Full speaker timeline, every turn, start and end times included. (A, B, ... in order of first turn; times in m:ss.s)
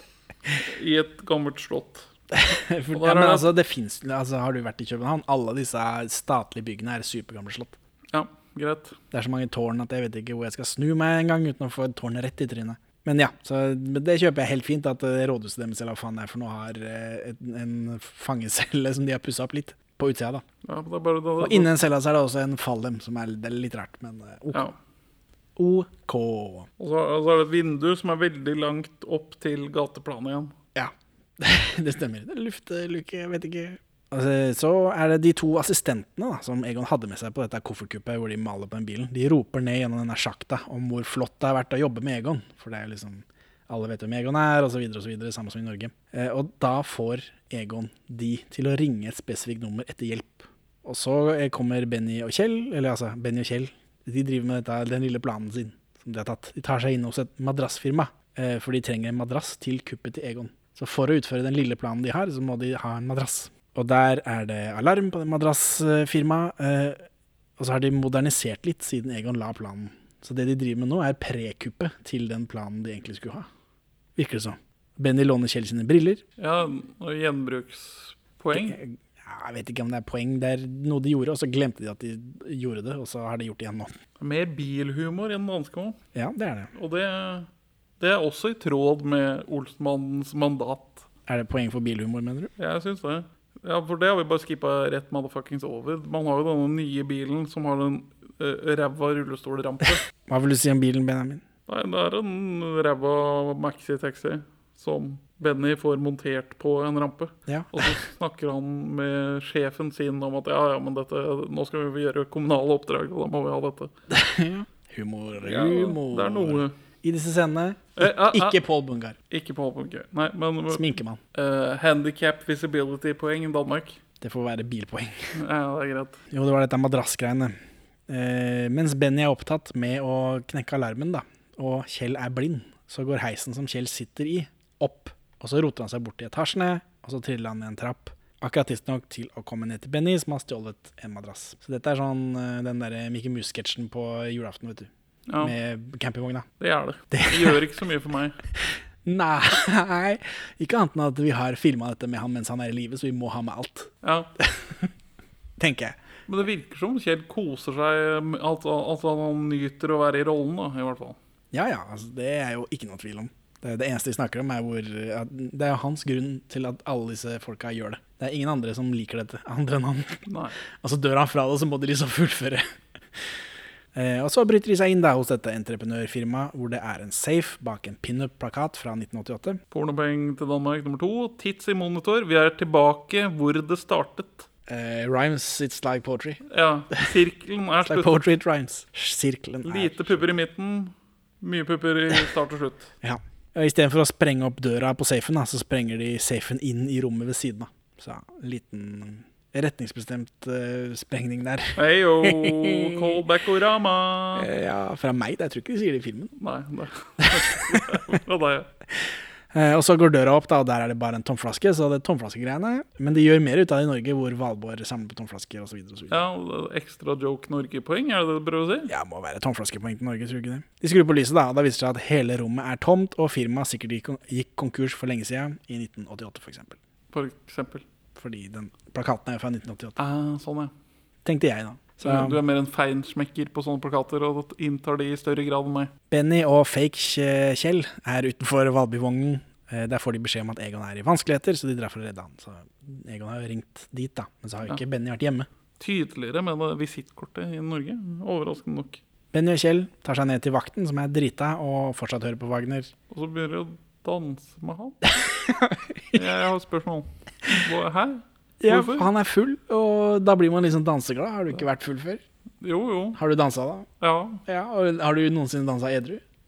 0:00.6-0:02.1 A
0:02.3-0:07.8 B
0:02.9-0:03.5 A
0:08.1-0:09.0 A
0:09.1-0:20.4 B
0:20.6-0:21.7 A
0:21.4-0:24.7 B
0:25.6-0:26.7 B
0:26.8-0:30.5 A
0:30.8-1:07.0 B
1:07.6-1:13.5 B
1:14.2-1:16.2 B
1:16.4-1:18.8 A
1:18.5-1:23.9 B
1:24.2-1:26.0 A
1:26.1-1:26.7 B
1:26.7-1:27.5 A
1:28.0-1:31.1 A
1:31.3-1:32.5 B
1:32.6-1:40.0 A
1:40.3-1:41.4 B
1:41.7-1:53.9 A
1:47.5-1:47.9 B
1:54.1-1:59.2 B
1:55.4-1:56.8 A
1:58.0-1:58.6 A
1:59.3-2:04.0 A
2:00.7-2:01.2 B
2:04.2-2:05.3 B
2:05.4-2:06.2 A
2:06.3-2:07.6 B
2:08.1-2:26.5 B
2:25.3-2:25.5 A
2:26.6-2:28.4 A
2:27.1-2:27.6 B
2:28.6-2:34.9 B
2:34.0-2:34.3 A
2:35.6-2:36.0 B
2:36.3-2:41.2 A
2:41.5-2:50.3 B
2:50.3-2:50.6 A
2:50.8-2:52.7 B
2:53.9-2:59.6 B
2:59.7-3:04.5 A
3:04.7-3:06.4 B
3:06.5-3:08.2 A
3:07.8-3:10.3 B
3:09.6-3:12.9 A
3:13.0-3:23.2 B
3:21.8-3:24.5 A
3:24.4-3:26.3 B
3:26.4-3:28.7 A
3:27.2-3:28.0 B
3:29.0-3:36.2 B
3:36.1-3:38.9 A
3:38.9-3:46.8 B
3:47.1-3:47.8 A
3:48.2-3:50.0 B
3:50.0-3:50.7 A
3:51.2-3:52.4 B
3:52.0-3:55.9 A
3:56.1-4:05.5 B
4:05.8-4:09.0 A
4:09.3-4:12.9 B
4:13.1-4:15.0 A
4:15.2-4:16.2 B
4:16.1-4:19.1 A
4:18.6-4:22.2 B
4:22.6-4:23.2 A
4:23.2-4:23.9 B
4:24.0-4:24.4 A
4:24.5-4:26.2 B